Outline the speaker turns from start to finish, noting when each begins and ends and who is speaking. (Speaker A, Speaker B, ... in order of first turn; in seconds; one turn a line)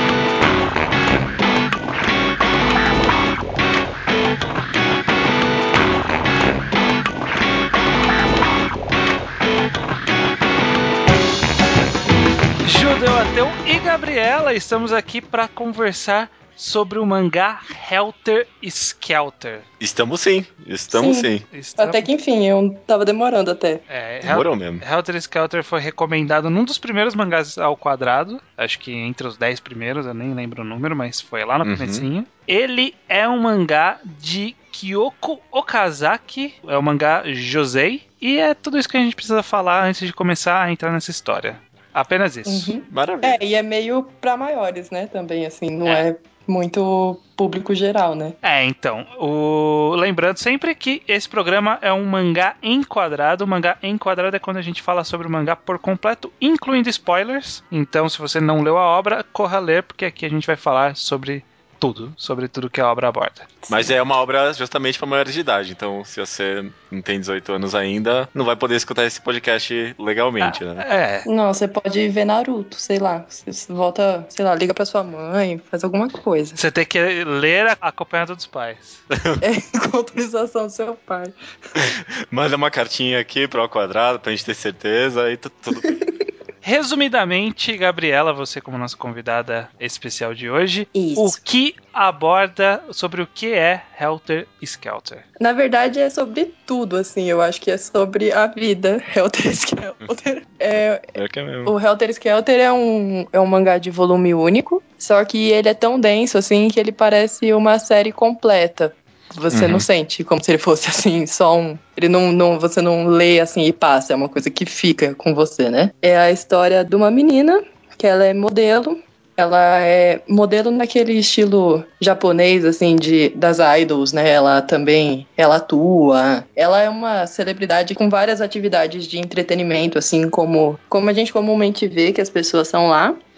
Speaker A: 12.6-19.6
Speaker B: 19.8-21.4
Speaker C: 20.9-23.8
Speaker A: 21.5-22.1
Speaker A: 23.9-42.7
Speaker B: 24.2-24.8
Speaker B: 31.6-32.1
Speaker C: 42.5-48.4
Speaker B: 42.9-43.4
Speaker A: 48.4-63.5
Speaker B: 63.7-70.8
Speaker A: 70.4-71.3
Speaker C: 71.2-76.6
Speaker A: 76.6-79.0
Speaker C: 79.4-81.8
Speaker B: 81.8-85.9
Speaker C: 85.8-86.1
Speaker A: 86.6-95.2
Speaker C: 90.9-91.4
Speaker C: 95.4-101.0
Speaker B: 101.1-101.7
Speaker C: 101.7-133.2
Speaker B: 109.5-109.8